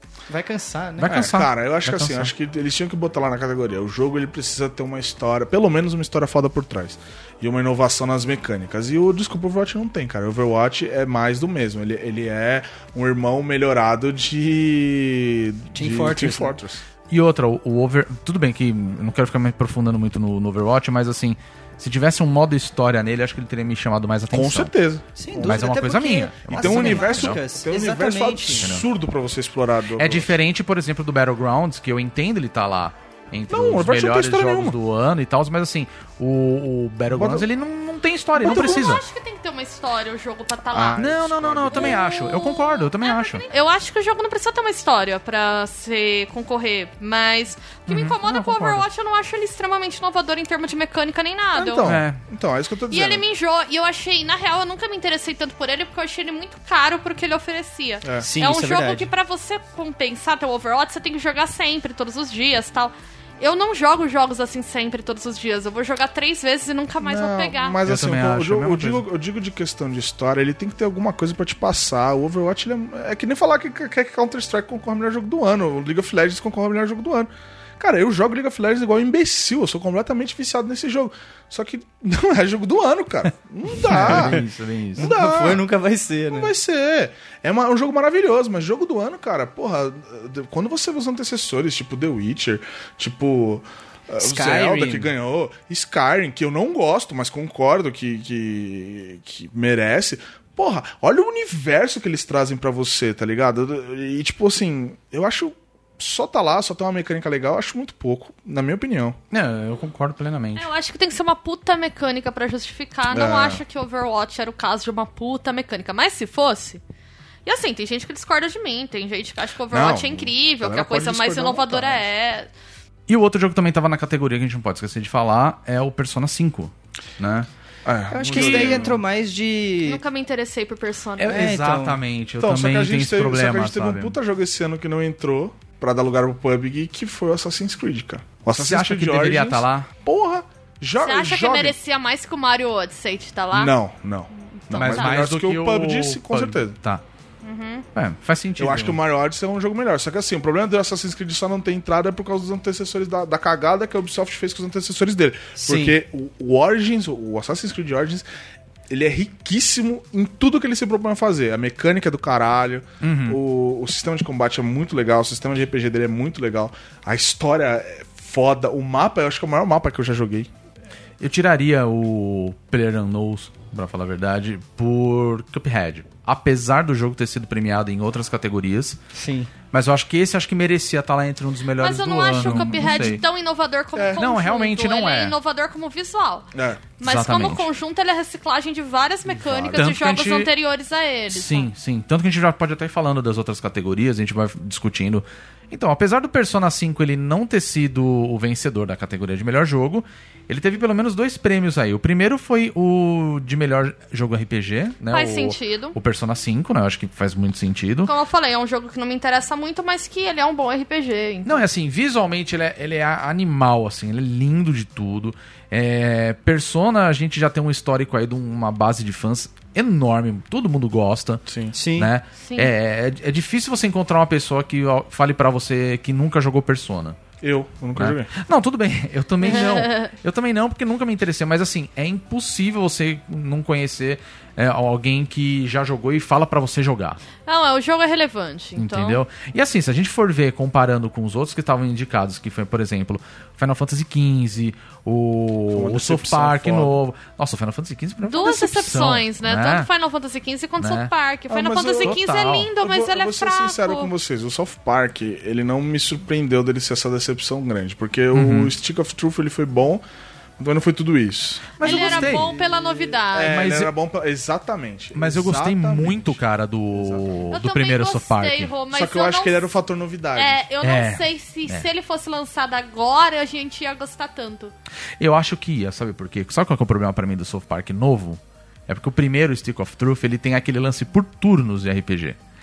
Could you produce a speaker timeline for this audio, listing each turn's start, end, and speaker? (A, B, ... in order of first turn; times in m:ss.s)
0:00.3-0:01.2 A
0:01.0-0:02.3 B
0:01.0-0:16.8 C
0:15.7-0:16.5 A
0:17.1-0:24.7 B
0:24.3-0:25.0 C
0:25.2-0:28.7 A
0:25.3-0:27.4 B
0:26.5-0:30.4 C
0:30.0-0:39.0 B
0:33.5-0:34.8 C
0:37.1-0:37.5 C
0:38.4-0:39.0 C
0:38.4-0:41.0 D
0:40.7-0:42.0 C
0:41.0-0:43.4 B
0:41.7-0:51.9 D
0:47.9-0:48.8 B
0:51.5-0:53.2 C
0:51.8-0:52.2 B
0:52.9-1:07.8 D
0:58.0-0:58.3 C
0:58.2-0:59.1 A
1:07.0-1:24.4 C
1:07.8-1:09.0 B
1:23.8-1:24.4 A
1:23.8-1:25.1 B
1:25.0-1:25.6 C
1:25.0-1:26.5 A
1:26.3-1:49.2 C
1:34.2-1:35.1 A
1:49.3-1:50.7 B
1:50.6-1:56.8 D
1:53.1-1:53.6 C
1:57.4-2:02.5 D
1:59.7-2:02.0 C
2:03.1-2:07.5 B
2:07.8-2:09.0 C
2:08.1-2:10.0 A
2:08.3-2:08.9 B
2:09.8-2:11.4 D
2:11.2-2:14.2 B
2:11.3-2:12.0 A
2:12.4-2:21.8 C
2:18.5-2:19.9 B
2:21.0-2:23.7 D
2:23.5-2:26.8 C
2:24.4-2:25.2 D
2:24.7-2:27.0 B
2:27.4-2:27.8 D
2:27.9-2:29.0 B
2:28.6-2:38.2 C
2:35.6-2:35.9 A
2:38.9-2:50.5 C
2:43.0-2:43.4 B
2:51.2-2:59.0 B
2:59.1-2:59.5 A
2:59.7-3:03.2 B
3:01.8-3:11.7 D
3:02.4-3:03.0 C
3:04.0-3:04.2 C
3:04.1-3:05.4 B
3:06.5-3:06.8 C
3:07.0-3:07.7 B
3:09.2-3:09.9 C
3:09.7-3:10.5 B
3:11.3-3:28.1 B
3:25.1-3:26.0 D
3:28.0-3:31.6 D
3:31.4-3:41.4 B
3:41.4-3:41.7 C
3:41.7-3:42.1 A
3:41.9-3:47.2 B
3:42.4-3:42.7 D
3:47.4-3:48.3 C
3:48.0-3:57.2 B
3:49.4-3:50.1 D
3:57.4-3:59.2 D
3:58.8-4:09.9 B
4:05.7-4:07.0 C
4:08.2-4:14.1 D
4:10.8-4:11.1 B
4:11.5-4:12.2 C
4:12.0-4:12.7 B
4:12.8-4:20.0 C
4:18.3-4:18.7 B
4:20.6-4:22.4 C
4:21.8-4:22.5 B
4:21.8-4:23.6 D
4:23.3-4:26.4 C
4:23.4-4:23.9 B
4:25.1-4:28.7 B
4:26.9-4:27.4 C
4:27.5-4:29.7 D
4:28.9-4:30.6 C
4:30.4-4:34.7 D
4:30.8-4:31.9 B
4:35.2-4:42.4 B